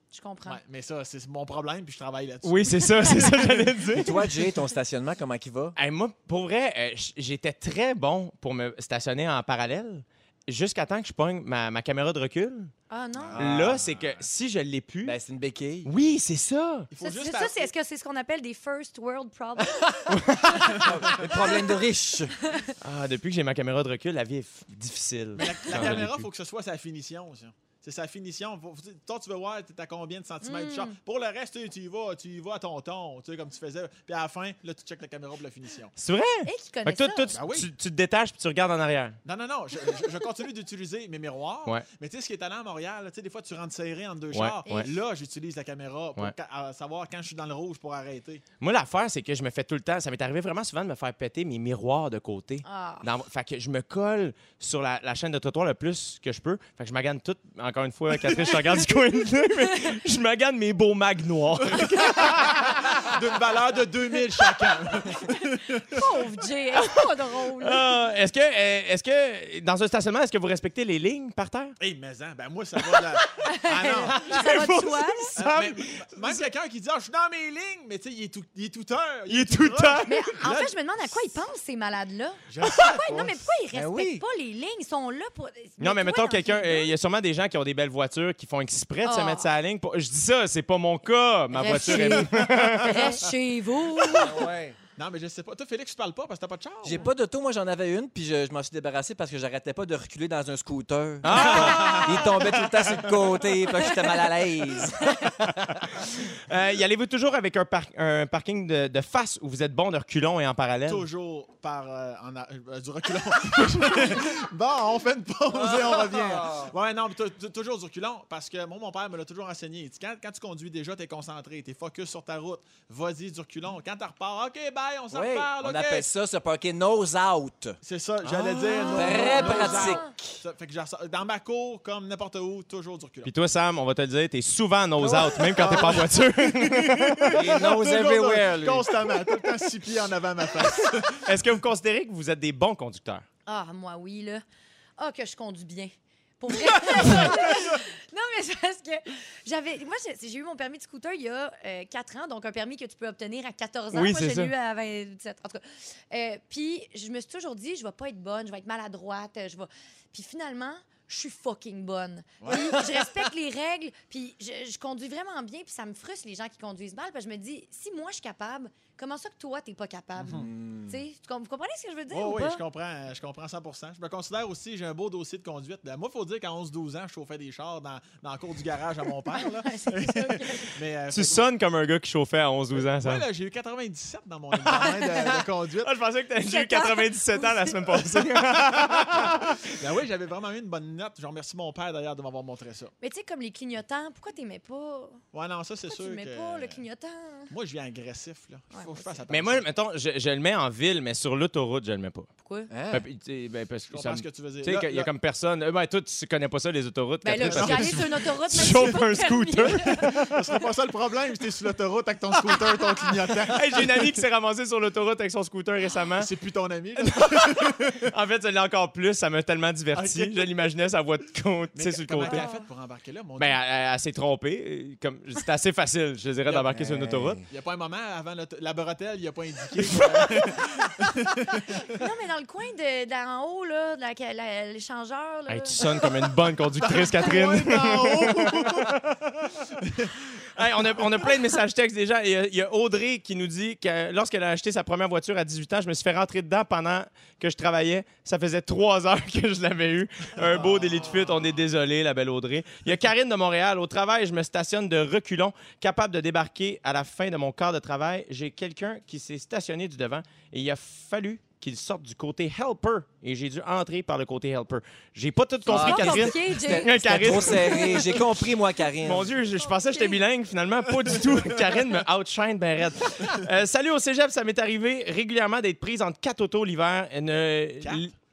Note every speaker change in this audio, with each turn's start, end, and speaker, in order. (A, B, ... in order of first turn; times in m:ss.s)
0:00.1-0:00.6 A
0:00.4-0:04.0 B
0:02.4-0:04.3 C
0:03.9-0:05.8 D
0:05.8-0:12.7 C
0:12.9-0:13.4 A
0:13.2-0:14.2 B
0:13.3-0:13.8 D
0:13.4-0:15.2 C
0:15.0-0:15.9 D
0:15.8-0:16.9 C
0:16.9-0:17.7 B
0:17.0-0:19.9 A
0:20.1-0:20.9 C
0:20.5-0:21.4 A
0:20.5-0:22.4 D
0:20.8-0:21.2 B
0:22.8-0:26.3 C
0:25.4-0:35.9 B
0:30.4-0:31.0 A
0:36.0-0:39.2 C
0:36.4-0:37.4 A
0:37.3-0:37.7 B
0:39.2-0:48.4 B
0:44.3-0:44.9 C
0:44.6-0:44.9 A
0:48.6-1:03.1 C
0:52.6-0:53.1 A
1:01.8-1:06.1 B
1:02.0-1:02.2 A
1:05.2-1:08.0 A
1:06.7-1:11.8 C
1:11.8-1:14.5 B
1:13.4-1:15.4 A
1:14.1-1:16.5 C
1:15.4-1:21.3 B
1:19.3-1:20.3 C
1:20.0-1:26.9 A
1:22.5-1:23.4 B
1:23.7-1:24.2 D
1:25.8-1:33.2 C
1:29.0-1:29.5 A
1:31.5-1:34.5 A
1:31.7-1:33.0 B
1:34.1-1:34.8 D
1:35.0-1:37.1 B
1:36.8-1:45.8 D
1:41.2-1:42.5 C
1:41.3-1:43.1 B
1:46.5-1:51.1 C
1:50.8-2:06.0 B
1:55.5-1:56.7 D
2:05.1-2:07.8 D
2:07.8-2:13.3 B
2:08.2-2:08.7 C
2:08.7-2:10.1 A
2:08.9-2:10.3 D
2:13.2-2:17.4 C
2:15.0-2:15.8 D
2:15.5-2:21.3 B
2:17.3-2:18.9 D
2:21.2-2:23.2 C
2:23.4-2:24.4 A
2:25.0-2:52.6 A
2:27.0-2:27.7 B
2:33.9-2:34.5 C
2:42.4-2:42.8 B
2:50.2-2:50.5 B
2:50.2-2:51.0 D
2:52.1-3:01.5 B
2:59.3-3:00.8 A
3:01.1-3:03.2 C
3:02.7-3:05.9 B
3:04.6-3:09.8 C
3:06.4-3:08.0 A
3:08.6-3:12.9 B
3:13.0-3:15.2 A
3:15.3-3:16.8 B
3:15.8-3:17.5 A
3:17.5-3:19.6 B
3:18.7-3:19.2 A
3:19.3-3:22.3 C
3:22.4-3:22.7 A
3:22.7-3:23.0 D
3:22.9-3:30.4 C
3:23.9-3:25.1 B
3:27.2-3:30.2 A
3:27.4-3:28.0 B
3:29.9-3:34.1 B
3:33.5-3:36.3 C
3:36.2-3:38.1 B
3:37.0-3:42.4 C
3:39.9-3:40.5 B
3:41.7-3:43.6 B
3:42.2-3:42.6 A
3:43.4-3:47.4 C
3:46.5-3:46.7 B
3:46.7-3:47.5 D
3:47.5-3:52.0 B
3:49.9-3:50.2 C
3:51.8-3:55.9 A
3:55.5-3:59.0 C
3:56.8-4:01.0 B
4:00.5-4:28.2 C
4:10.4-4:11.6 B
4:25.6-4:29.3 D
4:25.7-4:28.2 A
4:29.0-4:38.1 C
4:29.6-4:30.2 A
4:37.8-4:38.1 B